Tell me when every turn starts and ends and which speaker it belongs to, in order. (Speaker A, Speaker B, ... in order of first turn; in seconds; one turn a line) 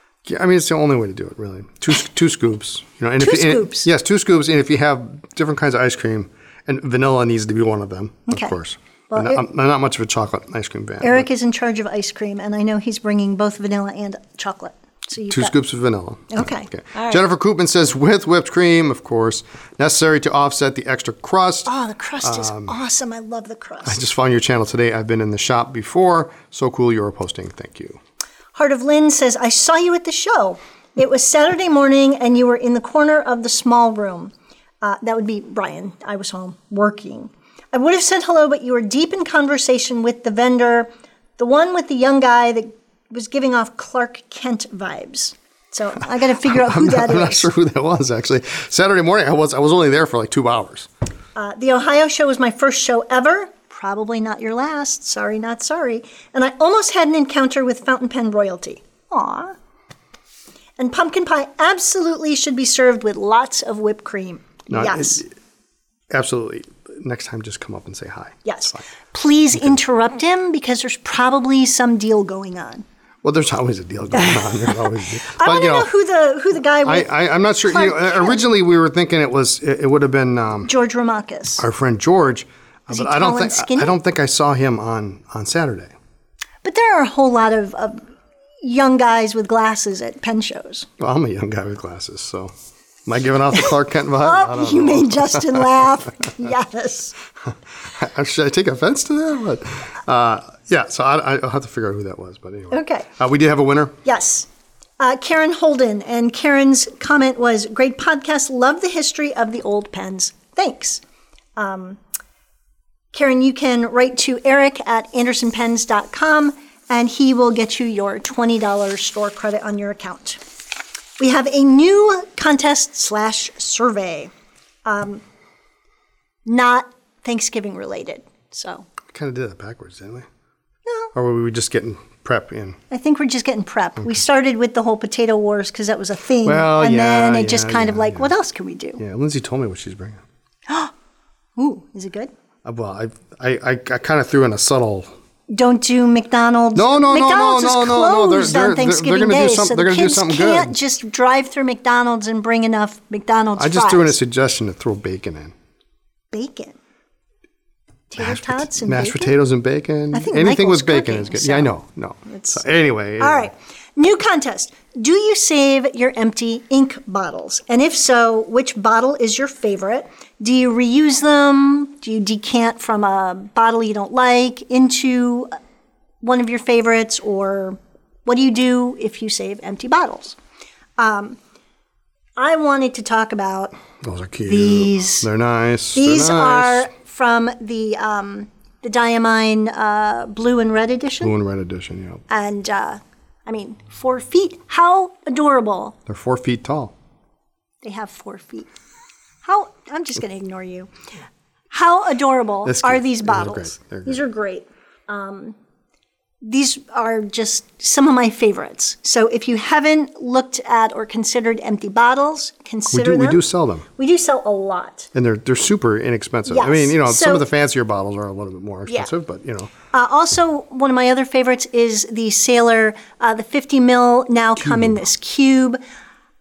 Speaker A: 0.2-11.3
Speaker B: 3.2-3.9
Speaker B: 8.3-8.6
Speaker B: 9.1-9.4
Speaker B: 11.0-15.5
Speaker A: 15.3-21.7
Speaker B: 16.3-17.2
Speaker B: 21.7-24.0
Speaker A: 22.2-22.7
Speaker A: 23.9-28.0
Speaker B: 28.5-47.5
Speaker A: 46.4-50.9
Speaker B: 51.4-59.5
Speaker B: 60.8-65.2
Speaker A: 64.7-65.3
Speaker A: 66.1-68.8
Speaker B: 68.5-72.8
Speaker A: 73.2-75.9
Speaker B: 75.3-77.1
Speaker A: 76.8-80.7
Speaker B: 77.7-78.4
Speaker B: 80.7-81.7
Speaker A: 81.6-85.9
Speaker B: 82.9-84.0
Speaker B: 86.6-88.0
Speaker B: 88.6-90.9
Speaker A: 91.0-92.5
Speaker A: 93.1-95.7
Speaker B: 94.2-97.2
Speaker A: 97.4-104.0
Speaker B: 102.7-103.1
Speaker B: 104.0-104.5
Speaker B: 105.0-111.0
Speaker B: 111.6-112.0
Speaker B: 113.1-120.4
Speaker B: 121.2-124.3
Speaker B: 124.8-125.2
Speaker B: 126.5-128.9
Speaker A: 129.1-130.3
Speaker A: 131.1-132.8
Speaker B: 132.9-139.0
Speaker A: 136.4-138.3
Speaker A: 139.0-140.2
Speaker B: 140.7-140.9
Speaker B: 141.6-142.3
Speaker A: 142.6-145.1
Speaker B: 145.5-154.2
Speaker A: 146.8-150.8
Speaker A: 153.6-155.5
Speaker B: 156.3-156.8
Speaker B: 158.1-159.3
Speaker A: 158.2-163.5
Speaker B: 160.1-161.7
Speaker B: 162.3-162.6
Speaker B: 163.2-175.6
Speaker B: 176.2-180.4
Speaker B: 181.0-181.4
Speaker B: 182.4-183.8
Speaker A: 184.0-186.9
Speaker B: 184.5-185.3
Speaker B: 185.9-191.3
Speaker A: 191.2-192.2
Speaker B: 192.3-196.0
Speaker A: 196.1-196.9
Speaker B: 197.8-198.7
Speaker B: 199.4-200.9
Speaker B: 201.7-205.6
Speaker A: 202.7-204.2
Speaker B: 206.4-213.4
Speaker A: 212.9-213.9
Speaker B: 214.0-215.1
Speaker A: 215.1-219.7
Speaker B: 216.5-217.5
Speaker B: 219.9-225.8
Speaker A: 224.6-225.0